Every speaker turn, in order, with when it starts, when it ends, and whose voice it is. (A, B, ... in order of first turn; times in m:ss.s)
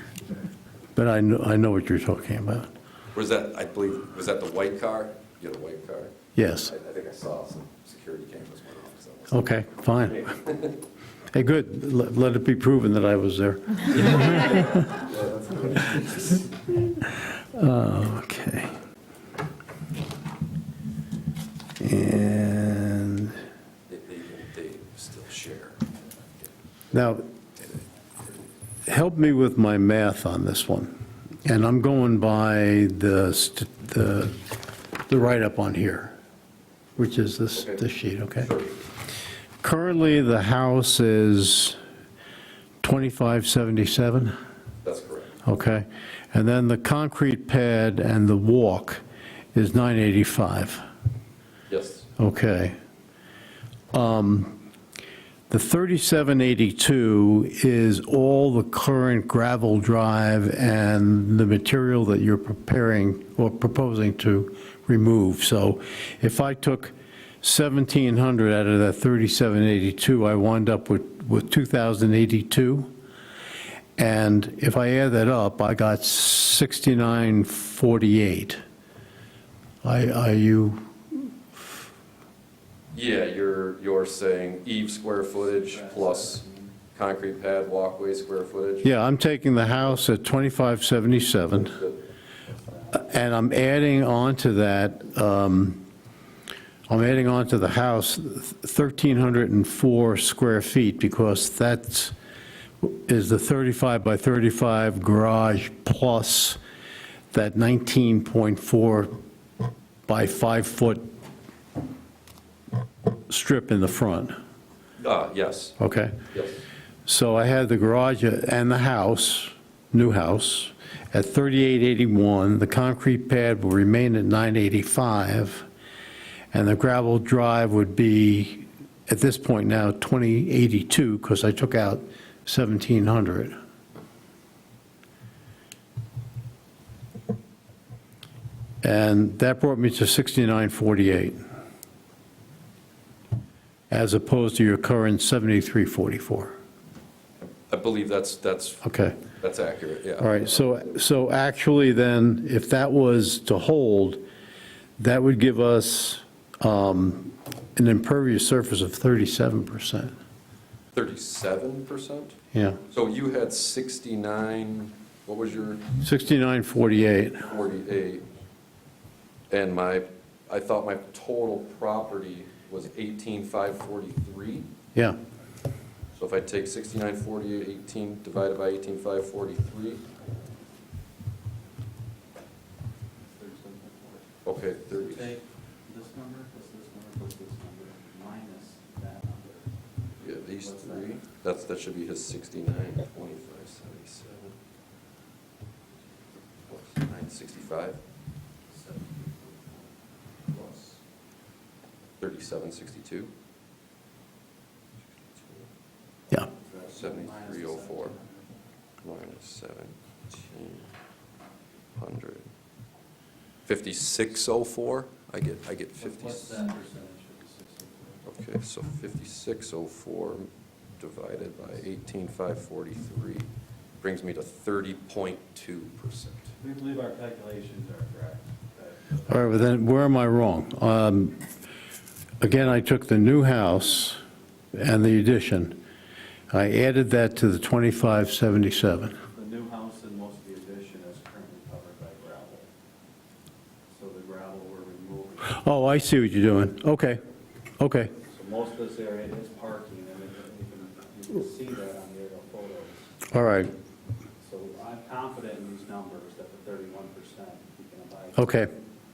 0:01.0-0:02.7 A
0:03.1-0:06.1 B
0:06.4-0:06.7 A
0:06.7-0:09.6 B
0:09.3-0:10.3 A
0:10.2-0:10.7 B
0:11.3-0:14.7 A
0:14.3-0:16.4 B
0:17.5-0:18.7 A
0:21.8-0:23.4 A
0:23.9-0:26.5 B
0:26.9-0:27.2 A
0:28.9-0:30.9 A
0:31.4-0:34.4 A
0:35.1-0:36.2 A
0:37.0-0:38.5 A
0:37.5-0:37.8 B
0:38.4-0:38.8 B
0:39.6-0:41.8 A
0:42.8-0:44.4 A
0:44.8-0:45.4 B
0:45.4-0:49.0 A
0:49.5-0:50.8 A
0:51.7-0:52.1 B
0:52.2-0:52.8 A
0:53.9-0:54.6 A
0:55.5-1:12.9 A
1:14.0-1:18.6 A
1:19.8-1:21.3 A
1:22.9-1:26.4 B
1:25.4-1:26.8 C
1:27.0-1:29.0 B
1:28.8-1:31.8 A
1:32.5-1:33.1 C
1:32.9-1:35.8 A
1:36.9-1:42.2 A
1:42.8-1:46.6 A
1:47.3-1:49.1 A
1:50.1-1:51.0 A
1:53.3-1:54.4 A
1:55.0-1:55.8 B
1:55.8-1:56.2 A
1:56.3-1:56.6 B
1:57.1-2:05.7 A
2:06.5-2:13.6 A
2:18.8-2:21.4 A
2:23.9-2:26.5 A
2:27.7-2:30.9 B
2:28.8-2:29.2 A
2:30.2-2:34.2 A
2:35.0-2:40.1 A
2:40.9-2:42.4 B
2:42.5-2:42.8 A
2:42.9-2:45.9 B
2:46.0-2:47.5 A
2:47.4-2:48.3 B
2:49.5-2:54.7 B
2:56.2-3:00.0 B
3:03.2-3:04.3 C
3:04.4-3:05.3 B
3:04.9-3:09.7 C
3:10.2-3:14.6 B
3:10.6-3:11.2 C
3:16.7-3:18.0 B
3:18.7-3:19.9 C
3:20.5-3:20.9 C
3:22.2-3:23.3 B
3:25.4-3:25.7 B
3:26.5-3:28.4 C
3:26.9-3:28.2 B
3:29.0-3:30.9 B
3:32.0-3:32.5 B
3:33.6-3:36.6 B
3:36.0-3:38.2 C
3:38.2-3:43.5 B
3:44.0-3:46.5 B
3:46.6-3:49.5 C
3:49.3-3:51.4 A
3:52.4-3:54.2 A
3:54.7-3:55.8 A
3:56.5-3:59.2 A
3:59.3-4:02.7 C
4:03.9-4:05.6 C
4:05.5-4:07.2 A
4:07.8-4:08.1 A
4:08.2-4:13.2 C
4:13.3-4:13.7 A
4:14.4-4:18.7 C
4:18.4-4:18.7 A